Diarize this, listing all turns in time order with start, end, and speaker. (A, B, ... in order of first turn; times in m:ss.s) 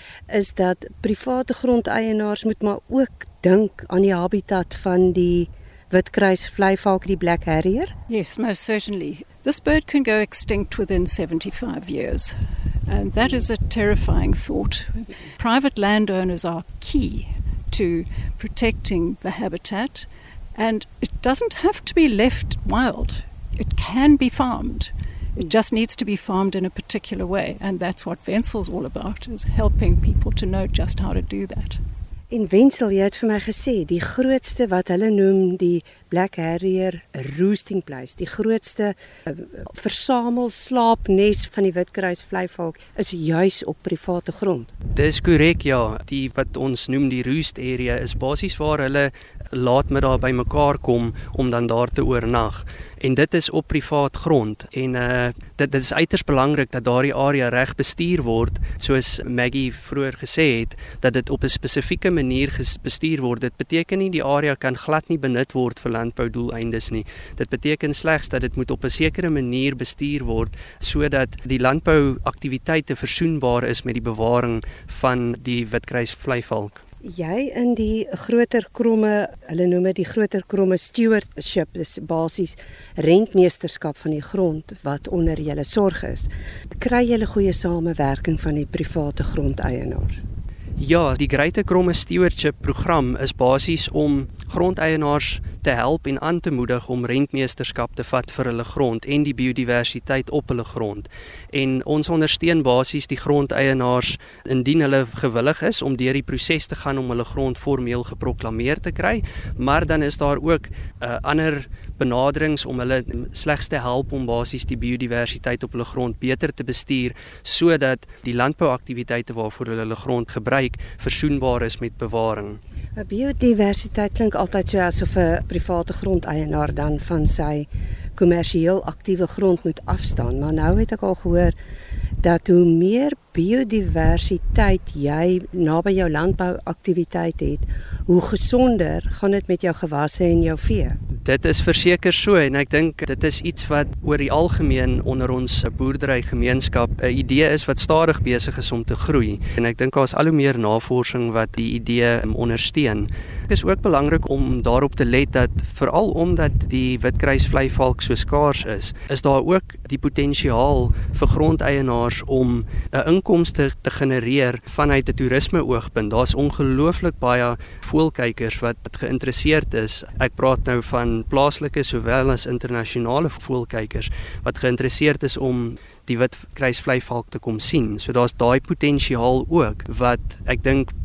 0:00.3-0:07.9 A
0:08.1-0:31.8 B
0:32.3-0:44.7 A
0:44.9-1:16.8 C
1:17.0-1:30.2 A
1:30.8-2:02.6 C
2:03.0-2:11.6 A
2:12.2-2:21.0 A
2:21.2-3:00.9 C